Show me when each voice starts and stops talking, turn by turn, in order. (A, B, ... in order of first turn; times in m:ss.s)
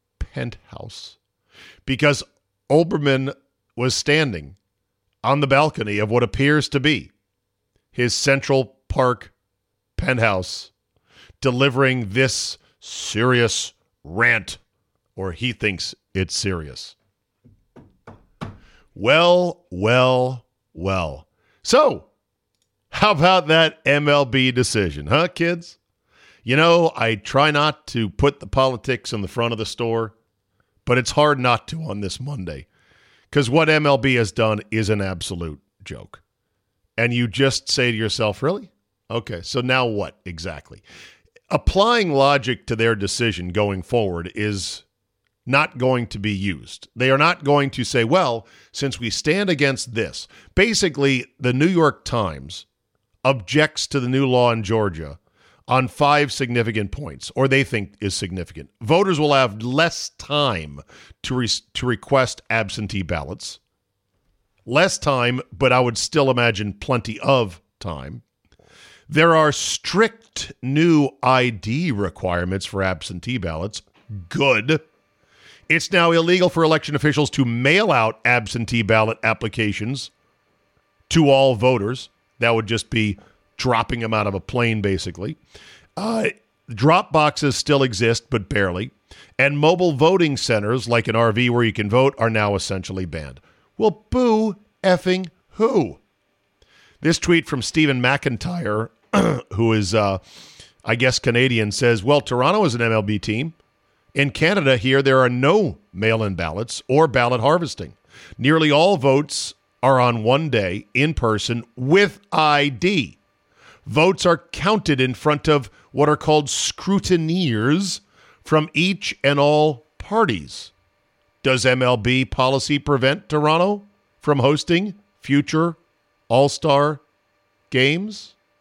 0:00.2-0:01.2 A
0:01.9-0:04.6 A
0:05.2-0:07.1 A
0:07.9-0:09.3 A
0:10.0-0:10.7 A
0:11.4-0:14.6 A
0:15.2-0:17.0 A
0:19.0-0:22.1 A
0:22.9-0:25.8 A
0:26.4-0:30.1 A
0:30.8-0:32.7 A
0:33.3-0:36.2 A
0:37.0-0:40.8 A
0:41.5-0:44.8 A
0:45.5-0:52.7 A
0:53.2-1:03.6 A
1:04.7-1:08.2 A
1:09.1-1:14.8 A
1:15.7-1:20.1 A
1:21.1-1:25.4 A
1:26.0-1:36.0 A
1:37.0-1:40.2 A
1:40.8-1:43.6 A
1:44.1-1:53.2 A
1:53.9-2:00.7 A
2:01.4-2:05.8 A
2:06.3-2:07.0 A
2:07.7-2:08.3 A